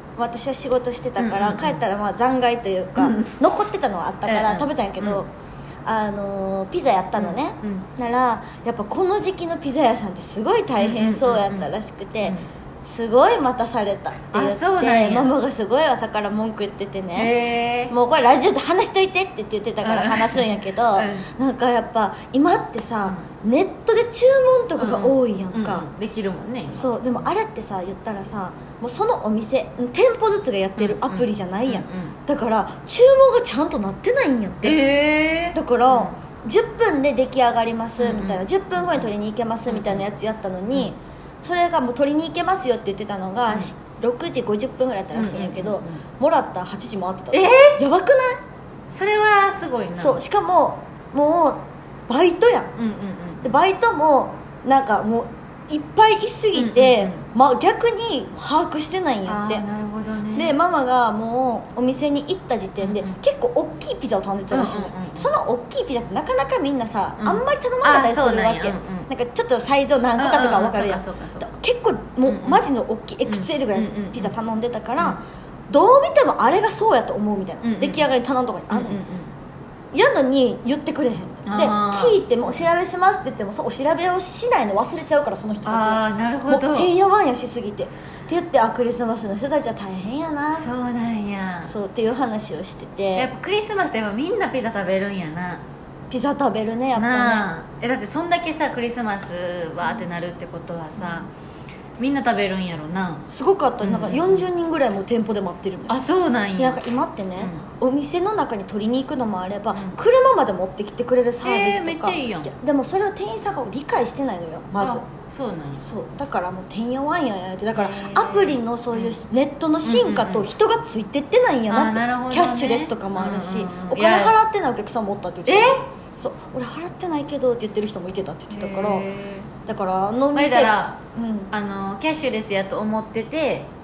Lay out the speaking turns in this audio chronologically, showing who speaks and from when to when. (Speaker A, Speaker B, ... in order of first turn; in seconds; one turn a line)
Speaker A: 0.2-5.3
Speaker B: 1.2-1.8
Speaker B: 3.0-3.3
Speaker B: 4.2-5.2
Speaker A: 5.8-17.3
Speaker B: 7.2-7.8
Speaker B: 10.8-11.7
Speaker B: 14.3-15.3
Speaker B: 17.1-17.9
Speaker A: 17.9-25.9
Speaker B: 19.8-21.3
Speaker B: 24.8-26.9
Speaker A: 26.7-34.8
Speaker B: 30.8-32.1
Speaker B: 34.6-36.1
Speaker A: 35.5-48.4
Speaker B: 38.0-39.0
Speaker B: 39.7-40.0
Speaker B: 45.1-46.0
Speaker B: 47.3-47.8
Speaker B: 48.9-50.2
Speaker A: 50.0-52.7
Speaker B: 52.8-53.5
Speaker A: 53.4-59.6
Speaker B: 56.5-57.2
Speaker B: 59.2-60.5
Speaker A: 60.3-79.0
Speaker B: 62.8-63.1
Speaker B: 64.5-65.3
Speaker B: 67.2-69.1
Speaker B: 70.2-71.5
Speaker B: 72.2-72.6
Speaker B: 73.2-74.3
Speaker B: 77.6-78.1
Speaker B: 78.7-79.3
Speaker A: 79.9-90.7
Speaker B: 81.4-82.2
Speaker B: 85.6-86.9
Speaker B: 90.5-91.7
Speaker A: 91.7-93.3
Speaker B: 93.1-95.6
Speaker A: 96.1-97.4
Speaker B: 96.9-101.3
Speaker B: 102.0-103.2
Speaker A: 103.3-105.9
Speaker B: 103.8-104.4
Speaker B: 105.9-106.8
Speaker A: 106.6-115.0
Speaker B: 109.7-110.0
Speaker B: 111.4-112.5
Speaker B: 114.8-115.8
Speaker A: 115.8-129.1
Speaker B: 117.7-119.1
Speaker B: 119.8-120.5
Speaker B: 121.7-124.3
Speaker B: 125.5-125.8
Speaker B: 128.5-129.5
Speaker A: 129.7-131.5
Speaker B: 130.3-131.0
Speaker B: 131.5-133.7